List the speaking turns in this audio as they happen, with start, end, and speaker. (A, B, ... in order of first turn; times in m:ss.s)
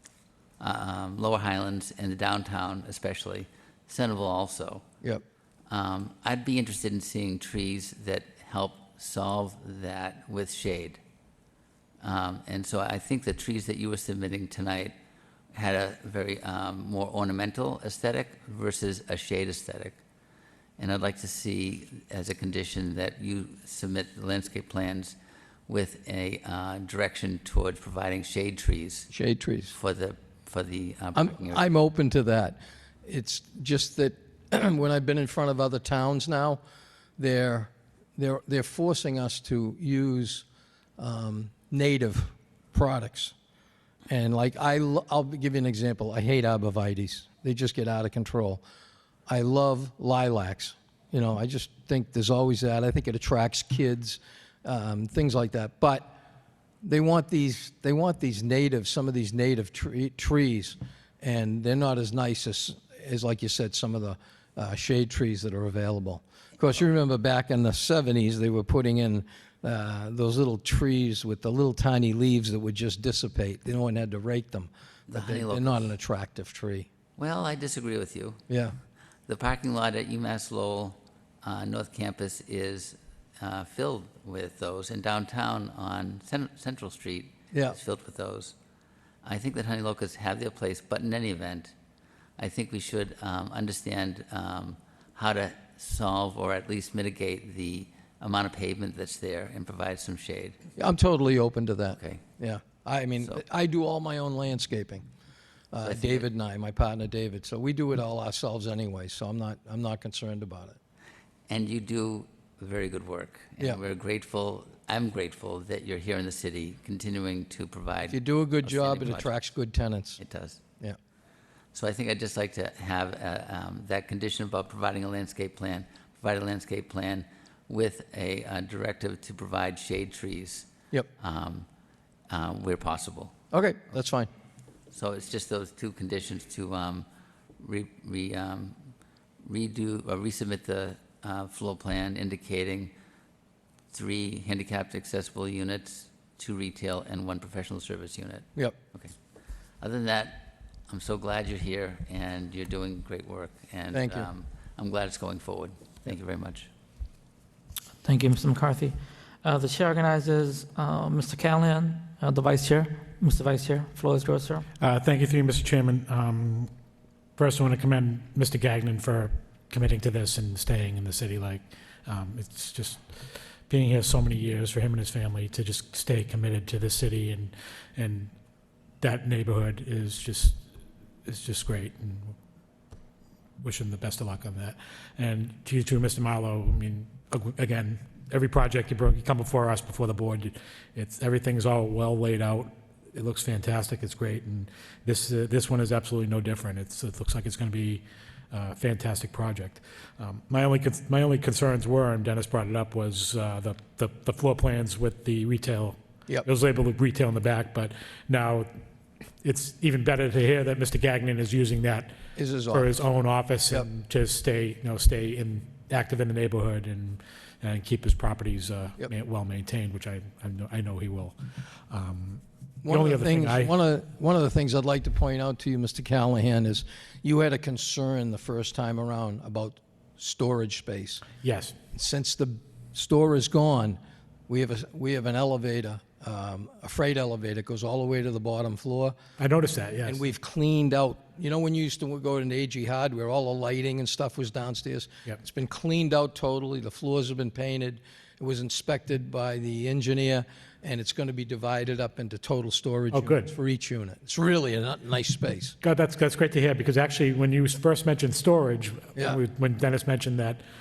0:00.6-0:04.8 A
0:05.7-0:11.0 A
0:12.0-0:14.9 A
0:15.5-0:20.0 A
0:20.8-0:25.1 A
0:25.7-0:29.1 A
0:29.1-0:29.7 B
0:29.7-0:31.6 A
0:31.1-0:36.6 B
0:37.2-0:40.4 B
0:41.0-0:43.3 B
0:44.1-0:48.6 B
0:49.3-0:56.1 B
0:56.8-1:16.9 B
1:15.1-1:15.9 A
1:17.2-1:18.4 A
1:18.5-1:18.7 B
1:19.3-1:28.5 A
1:27.5-1:27.8 B
1:29.2-1:31.7 A
1:32.4-1:40.6 A
1:40.8-1:45.0 B
1:41.9-1:42.2 A
1:45.7-1:50.8 B
1:45.8-1:46.3 A
1:51.5-1:59.3 A
1:58.1-2:00.2 B
2:00.2-2:00.6 A
2:01.7-2:11.7 A
2:12.3-2:13.3 A
2:13.5-2:14.3 B
2:14.9-2:17.0 A
2:17.6-2:18.9 A
2:19.4-2:22.9 A
2:23.9-2:29.1 A
2:29.8-2:36.7 A
2:33.9-2:34.3 B
2:38.0-2:44.7 C
2:44.8-2:46.7 D
2:47.4-2:58.3 D
2:59.0-3:00.6 D
3:01.2-3:02.3 D
3:03.6-3:28.7 D
3:29.4-3:32.2 D
3:32.4-3:33.0 B
3:32.7-3:41.4 D
3:41.9-3:43.7 D
3:42.8-3:51.2 B
3:51.4-3:51.8 D
3:51.9-3:59.2 B
3:59.4-4:00.2 D
4:00.0-4:15.7 B
4:13.1-4:13.5 D
4:15.8-4:20.6 D